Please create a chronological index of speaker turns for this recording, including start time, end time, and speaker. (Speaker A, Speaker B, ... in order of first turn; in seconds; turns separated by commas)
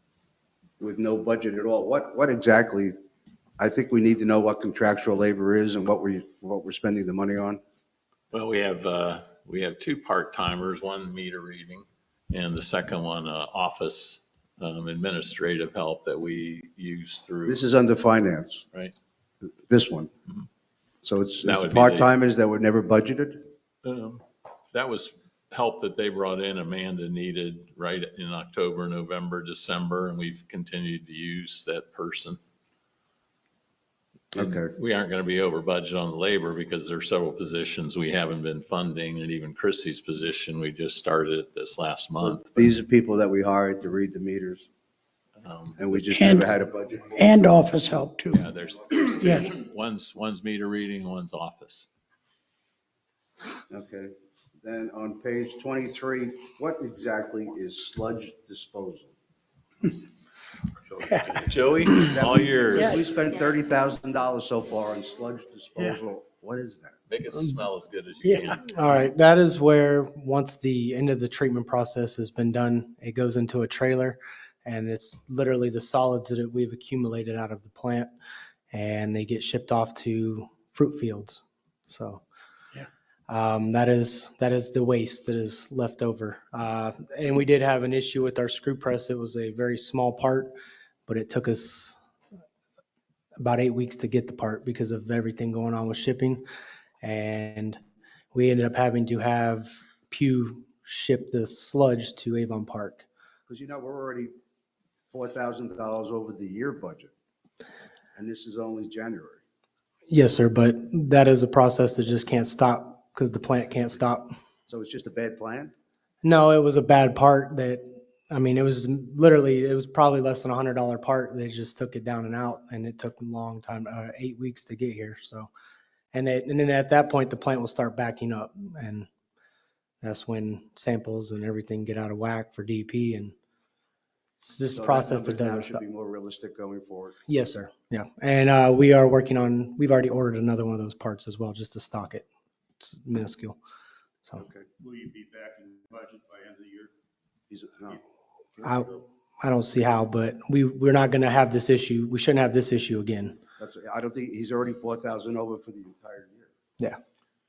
Speaker A: 0.8-2.9, Speaker A: 3.6-7.6, Speaker B: 8.3-17.6, Speaker A: 17.5-18.6, Speaker A: 19.7-20.1, Speaker A: 21.0-23.5, Speaker B: 21.4-22.1, Speaker B: 23.8-32.4, Speaker A: 34.4-34.7, Speaker B: 34.4-42.7, Speaker A: 42.2-44.7, Speaker B: 45.4-46.0, Speaker A: 45.8-47.4, Speaker C: 46.0-46.5, Speaker C: 47.1-48.5, Speaker B: 48.3-51.9, Speaker C: 49.2-49.5, Speaker A: 53.7-59.1, Speaker A: 60.9-67.0, Speaker B: 61.3-63.0, Speaker B: 67.1-69.0, Speaker C: 68.2-68.6, Speaker D: 68.6-78.1, Speaker D: 78.7-82.2, Speaker D: 83.3-90.5, Speaker D: 91.1-92.0, Speaker D: 93.4-96.4, Speaker D: 97.0-97.8, Speaker D: 98.3-103.1, Speaker A: 103.5-104.3, Speaker A: 105.1-107.1, Speaker A: 108.2-109.4, Speaker D: 110.1-114.3, Speaker A: 114.7-115.7, Speaker D: 116.2-125.5, Speaker D: 126.1-129.1, Speaker D: 130.0-133.3, Speaker D: 134.4-135.8, Speaker A: 134.7-137.2, Speaker D: 137.3-142.3, Speaker D: 142.8-143.6, Speaker A: 144.3-144.7, Speaker E: 144.8-146.9, Speaker A: 147.5-148.0, Speaker D: 148.6-153.4, Speaker A: 153.6-156.5